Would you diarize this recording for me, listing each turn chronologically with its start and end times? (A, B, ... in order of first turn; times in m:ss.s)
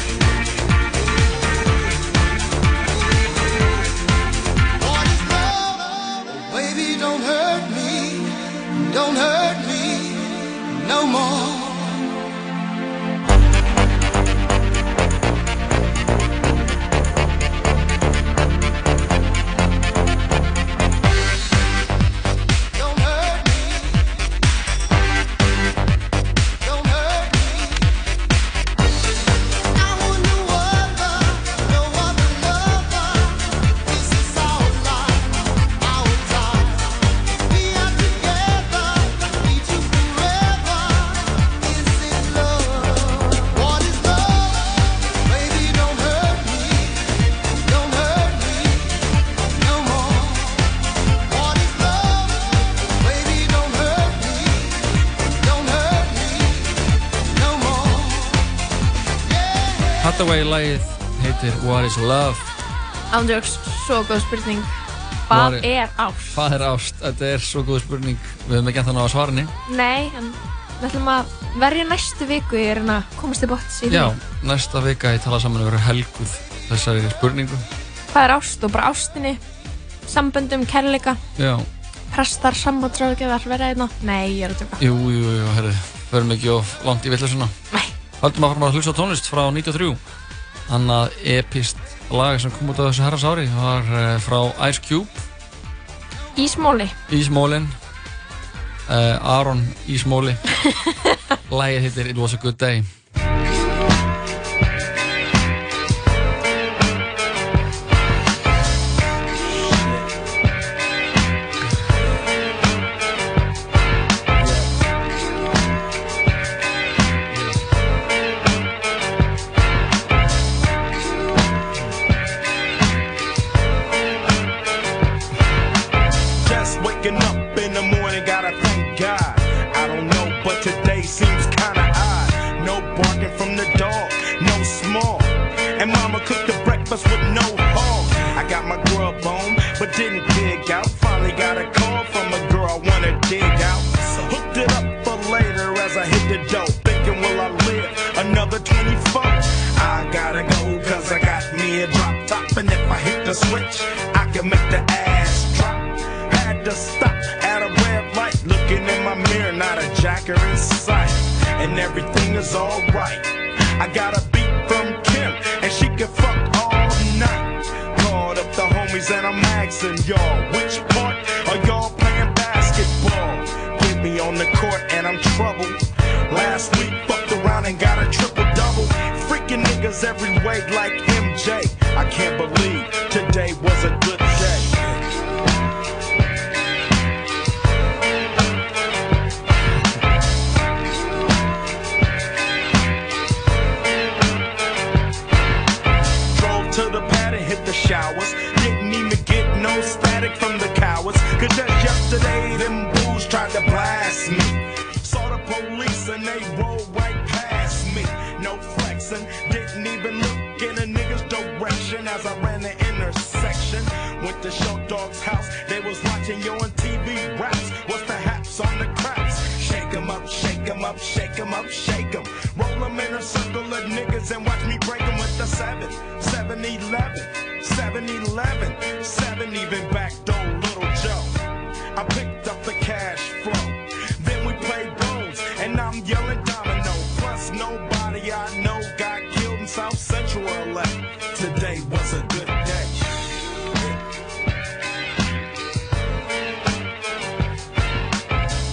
1:00.0-1:02.5 A
1:03.1-1:04.8 B
1:05.3-1:06.4 B
1:05.3-1:05.7 A
1:06.3-1:09.5 A
1:09.7-1:14.1 B
1:13.9-1:17.6 A
1:18.1-1:19.4 B
1:20.1-1:21.2 B
1:21.4-1:21.7 A
1:22.1-1:24.8 B
1:24.8-1:27.5 A
1:28.2-1:30.0 A
1:30.7-1:35.2 A
1:36.4-1:37.0 B
1:37.1-1:37.8 A
1:38.9-1:40.4 A
1:41.5-1:42.9 A
2:06.4-3:04.8 C
3:16.3-3:51.4 C
3:52.0-4:03.0 C